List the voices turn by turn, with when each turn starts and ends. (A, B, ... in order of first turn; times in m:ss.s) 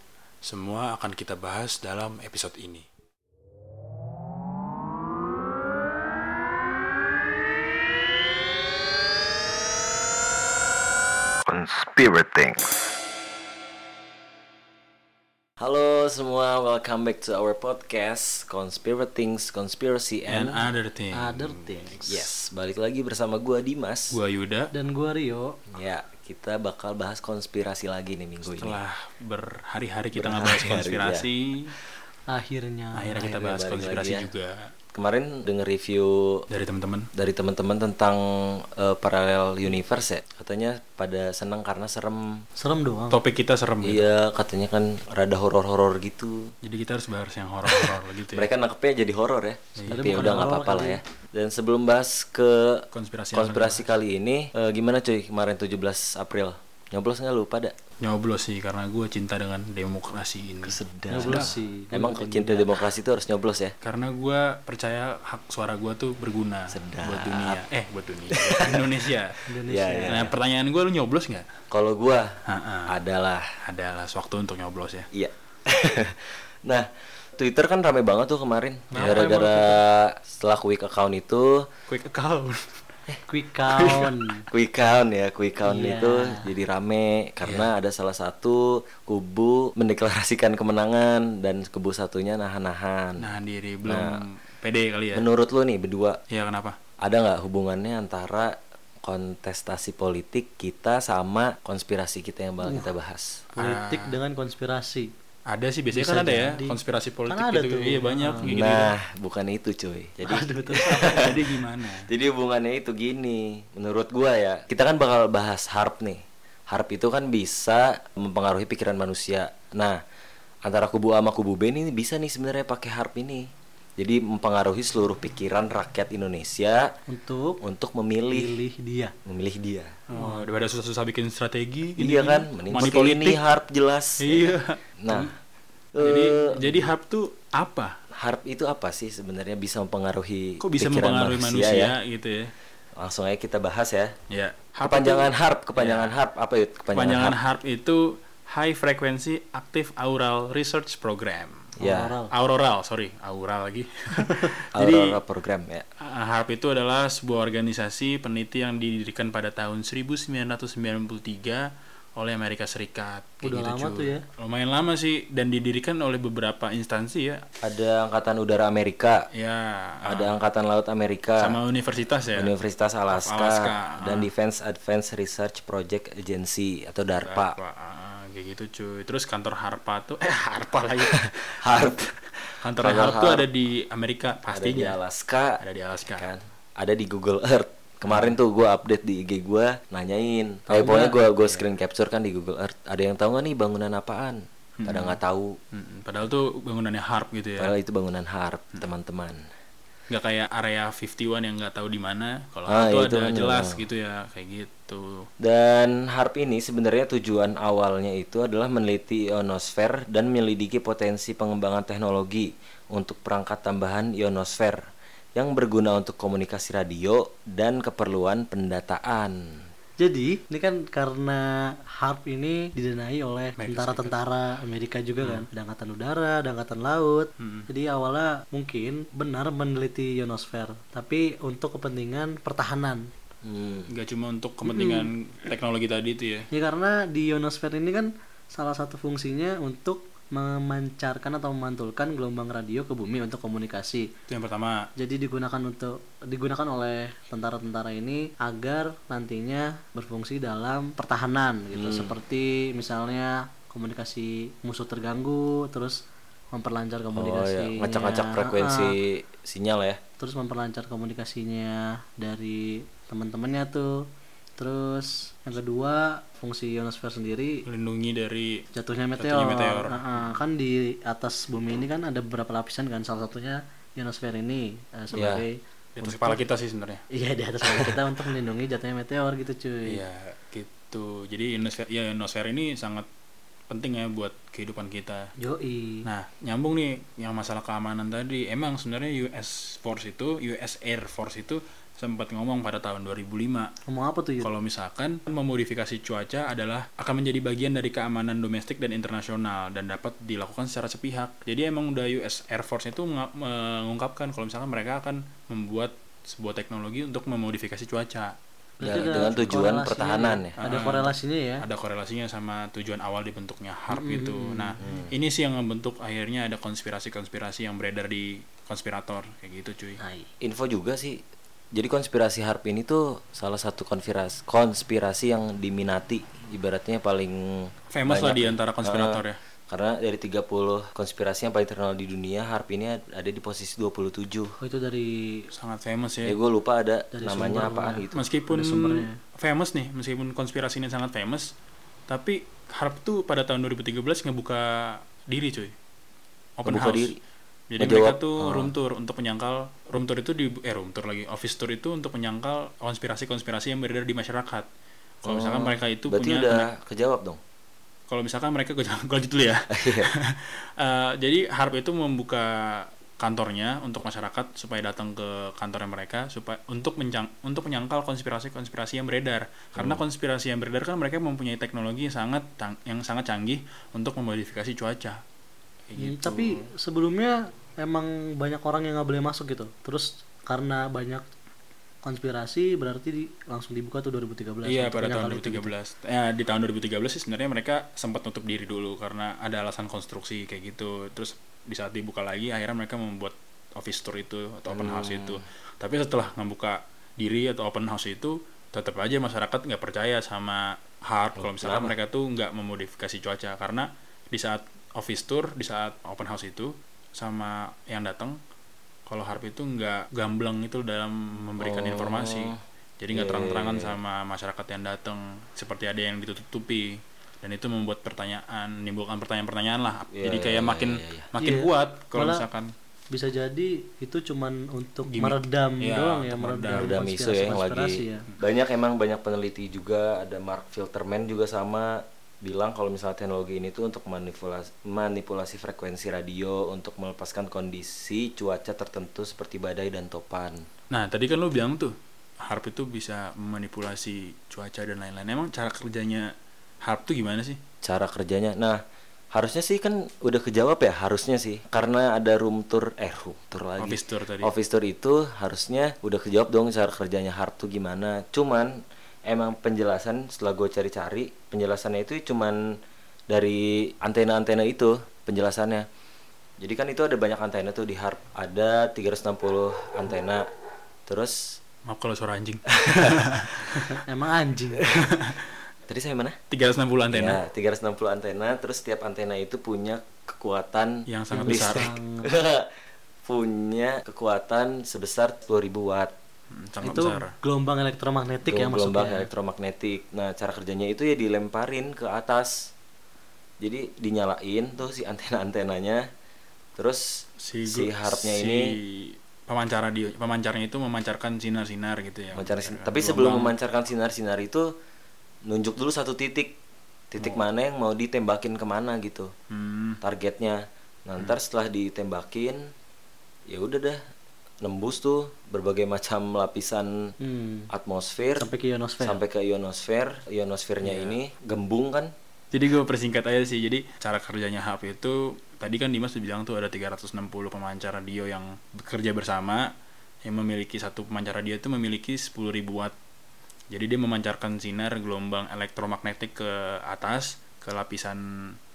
0:00.4-0:02.9 A
0:11.4-0:12.7 B
0:15.6-0:20.7 B
0:20.3-0:21.9 A
0:21.1-0:22.3 C
0:22.1-0:24.2 B
0:24.1-0:24.7 A
0:24.7-0:25.6 C
0:25.7-0:28.8 B
0:28.5-0:31.8 A
0:30.1-0:31.3 B
0:32.3-0:33.5 C
0:33.0-0:34.7 A
0:33.4-0:34.3 B
0:34.9-0:36.5 B
0:36.5-0:37.1 A
0:37.2-0:42.4 B
0:42.6-0:43.2 C
0:43.1-0:44.0 A
0:43.8-0:46.5 B
0:46.6-0:48.5 A
0:47.7-0:57.8 B
0:49.8-0:50.5 A
0:49.9-0:51.0 C
0:52.9-0:53.8 A
0:58.0-1:01.5 A
1:00.6-1:03.8 B
1:01.1-1:02.7 C
1:03.8-1:09.4 A
1:06.7-1:07.6 B
1:08.3-1:09.0 B
1:09.5-1:10.3 C
1:09.7-1:10.3 B
1:10.1-1:11.5 A
1:11.7-1:13.5 B
1:12.4-1:13.0 A
1:13.6-1:15.1 A
1:15.1-1:21.7 B
1:18.9-1:19.8 C
1:19.0-1:19.2 A
1:21.9-1:22.8 A
1:23.1-1:33.3 B
1:23.3-1:24.4 C
1:25.7-1:26.5 C
1:27.4-1:27.7 A
1:33.2-1:35.2 A
1:33.8-1:34.2 B
1:35.1-1:36.2 B
1:36.3-1:36.8 A
1:37.0-1:43.4 B
1:42.6-1:42.9 C
1:43.6-1:45.1 C
1:43.6-1:44.1 A
1:45.5-1:48.9 A
1:45.9-1:46.8 C
1:47.3-1:48.5 C
1:48.4-2:00.0 B
1:50.2-1:51.3 C
1:50.8-1:52.1 A
2:00.6-2:03.5 B
2:04.0-2:06.9 B
2:07.1-2:07.6 C
2:07.6-2:08.6 B
2:08.3-2:09.1 C
2:09.2-2:10.0 B
2:10.1-2:13.4 A
2:10.2-2:10.5 C
2:12.0-2:15.3 B
2:14.2-2:15.3 A
2:16.0-2:16.8 B
2:16.0-2:18.0 A
2:18.1-2:22.0 B
2:20.6-2:22.5 A
2:23.0-2:24.2 B
2:24.3-2:26.2 A
2:24.8-2:27.4 B
2:26.9-2:31.7 A
2:31.8-2:32.1 B
2:31.8-2:32.3 C
2:32.3-2:35.2 A
2:34.8-2:35.9 B
2:36.0-2:47.4 A
2:43.4-2:44.2 C
2:47.6-2:49.3 B
2:49.3-2:50.4 A
2:50.0-2:51.6 B
2:51.4-2:52.5 A
2:52.3-2:57.6 B
2:53.1-2:54.3 A
2:57.2-3:01.6 A
3:01.1-3:02.2 B
3:02.6-3:05.0 A
3:02.7-3:03.5 B
3:04.5-3:15.6 B
3:05.6-3:06.3 A
3:08.1-3:08.4 A
3:10.7-3:11.3 C
3:14.8-3:15.2 A
3:15.7-3:17.7 A
3:17.6-3:19.5 B
3:20.1-3:25.3 A
3:22.7-3:23.8 B
3:25.4-3:34.8 B
3:35.4-3:39.7 B
3:40.0-3:53.1 C
3:43.6-3:44.2 A
3:45.2-3:45.5 A
3:47.4-3:47.7 A
3:53.4-3:53.9 B
3:53.9-3:56.5 A
3:54.7-3:55.1 C
3:56.5-4:04.1 C
4:04.3-4:04.9 A
4:05.0-4:18.9 C
4:11.8-4:12.1 B
4:17.1-4:20.0 B
4:20.2-4:27.6 C
4:27.7-4:28.6 A
4:28.7-4:36.4 C
4:29.2-4:30.4 A
4:35.1-4:35.4 B
4:36.0-4:37.0 A
4:37.1-4:40.0 C
4:39.9-4:43.1 A
4:43.7-4:45.3 A
4:45.4-4:46.1 C
4:46.0-4:53.7 A
4:53.9-4:54.5 C
4:54.4-5:09.6 A
5:08.8-5:11.7 C
5:08.8-5:10.8 B
5:10.6-5:20.0 A
5:13.9-5:14.8 C
5:14.8-5:15.1 B
5:20.0-5:20.3 C
5:20.4-5:21.2 B
5:21.8-5:34.6 B
5:27.9-5:29.4 A
5:34.6-5:35.5 C
5:35.5-5:36.4 A
5:36.2-5:38.2 B
5:37.1-5:39.2 C
5:38.1-5:41.5 A
5:42.1-5:45.7 A
5:46.6-5:47.1 A
5:46.6-5:47.2 B
5:47.7-5:54.7 A
5:47.8-5:48.7 B
5:55.2-5:56.7 A
5:55.2-5:57.4 B
5:58.1-6:15.2 A
5:59.7-6:00.1 B
6:09.8-6:10.0 B
6:15.9-6:16.7 A
6:16.0-6:21.2 C
6:22.0-6:25.7 C
6:24.7-6:48.4 A
6:34.7-6:35.4 B
6:41.4-6:41.9 B
6:49.1-7:02.7 A
6:51.6-6:52.6 B
6:53.1-6:54.0 B
7:00.1-7:01.3 B
7:01.4-7:02.4 C
7:03.1-7:08.2 C
7:05.1-7:07.0 A
7:06.8-7:20.7 B
7:20.9-7:27.6 A
7:27.8-7:28.8 B
7:29.3-7:42.8 B
7:33.8-7:34.5 A
7:43.3-7:45.9 B
7:46.6-7:50.4 B
7:51.1-7:51.6 B
7:51.9-7:54.0 A
7:52.7-7:53.5 B
7:53.8-7:54.9 C
7:54.9-7:55.5 A
7:55.9-7:56.4 B
7:56.5-7:57.4 A
7:57.1-8:02.7 B
8:01.1-8:01.9 A
8:01.3-8:02.3 C
8:03.2-8:06.1 B
8:06.5-8:07.3 A
8:06.8-8:09.3 C
8:08.4-8:12.7 B
8:13.6-8:16.0 B
8:16.8-8:18.7 B
8:17.4-8:23.5 A
8:22.3-8:24.7 B
8:25.5-8:26.6 B
8:27.1-8:29.3 B
8:29.5-8:30.0 A
8:30.0-8:32.7 B
8:33.5-8:34.0 B
8:34.6-8:37.1 B
8:37.2-8:37.7 C
8:37.7-8:38.5 B
8:38.4-8:39.2 C
8:39.0-8:42.1 B
8:40.8-8:41.1 A
8:42.5-8:49.7 A
8:50.2-8:53.0 A
8:53.7-8:58.6 A